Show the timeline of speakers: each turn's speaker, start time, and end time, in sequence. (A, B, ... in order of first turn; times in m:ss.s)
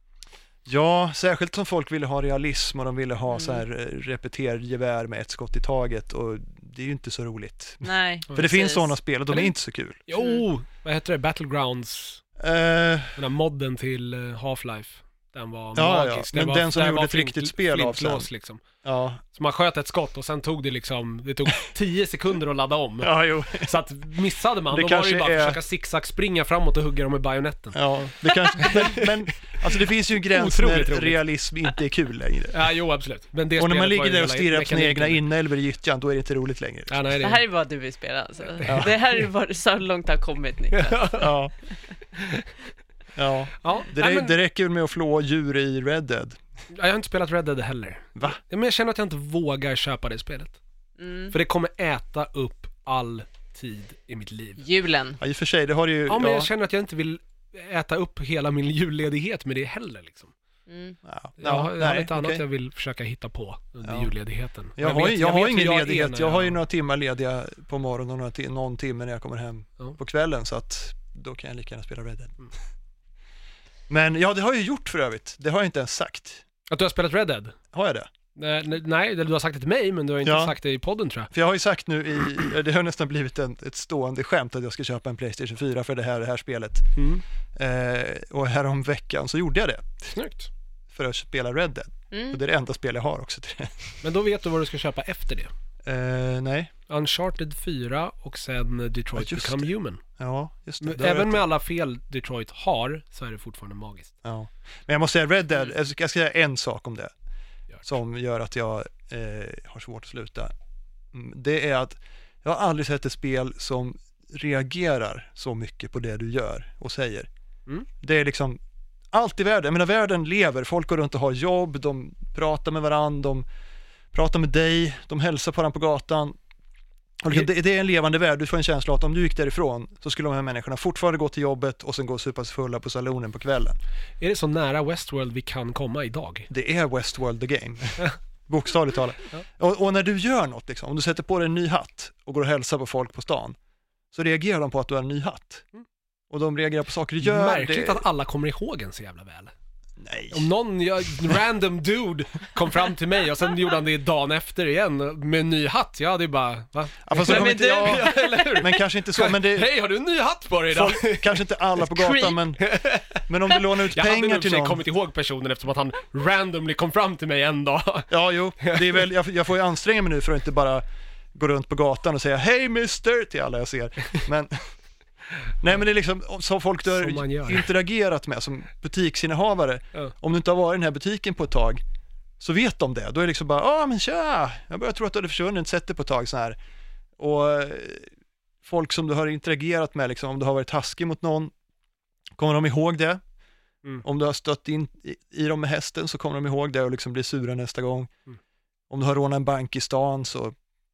0:00.6-0:10.0 A
0:03.3-0:03.6 B
0:07.8-0:08.9 B
0:09.3-0:09.6 C
0:10.1-0:12.2 C
0:10.2-0:10.4 B
0:12.4-0:13.2 A
0:13.2-0:18.6 C
0:15.7-0:18.3 A
0:18.8-0:19.2 A
0:19.3-0:27.8 C
0:23.0-0:23.7 A
0:24.7-0:25.6 A
0:27.7-0:32.7 A
0:28.6-0:29.7 C
0:30.2-0:31.2 C
0:32.5-0:35.2 C
0:33.6-0:37.0 A
0:36.9-0:37.4 C
0:37.2-0:41.2 B
0:38.6-0:38.9 C
0:38.6-0:38.9 A
0:40.7-0:41.3 C
0:41.2-0:41.5 A
0:42.2-0:42.4 C
0:43.2-0:46.4 A
0:43.6-0:44.4 C
0:46.7-0:50.6 C
0:51.0-0:51.3 B
0:51.3-0:54.6 C
0:54.6-0:55.2 B
0:55.2-0:56.5 A
0:56.1-1:00.3 C
1:00.7-1:01.0 B
1:01.0-1:02.4 A
1:01.4-1:06.6 C
1:03.8-1:04.1 A
1:04.8-1:12.5 A
1:13.9-1:16.4 A
1:16.7-1:17.6 C
1:17.7-1:18.1 A
1:18.4-1:21.3 C
1:20.2-1:20.6 A
1:21.3-1:27.0 A
1:27.0-1:27.2 C
1:27.6-1:30.2 A
1:30.2-1:30.5 C
1:30.9-1:34.0 A
1:32.1-1:32.4 B
1:34.0-1:35.5 C
1:35.8-1:36.7 A
1:36.9-1:40.0 C
1:39.2-1:41.4 A
1:40.8-1:44.1 C
1:44.2-1:47.1 A
1:47.8-1:50.5 A
1:51.1-1:57.3 A
1:58.0-1:58.6 A
1:59.1-2:03.4 A
2:04.1-2:06.4 A
2:07.2-2:13.8 A
2:14.2-2:16.5 C
2:16.5-2:23.6 A
2:24.1-2:25.6 A
2:26.3-2:28.0 A
2:27.2-2:29.5 C
2:30.0-2:30.5 A
2:30.3-2:49.0 C
2:37.0-2:39.7 A
2:37.2-2:38.6 B
2:40.7-2:44.8 A
2:48.1-2:54.7 A
2:55.6-3:01.8 A
2:57.0-2:57.7 C
3:02.4-3:06.6 A
3:07.2-3:08.1 A
3:08.6-3:11.5 A
3:12.4-3:13.2 A
3:14.0-3:18.1 A
3:18.9-3:20.6 A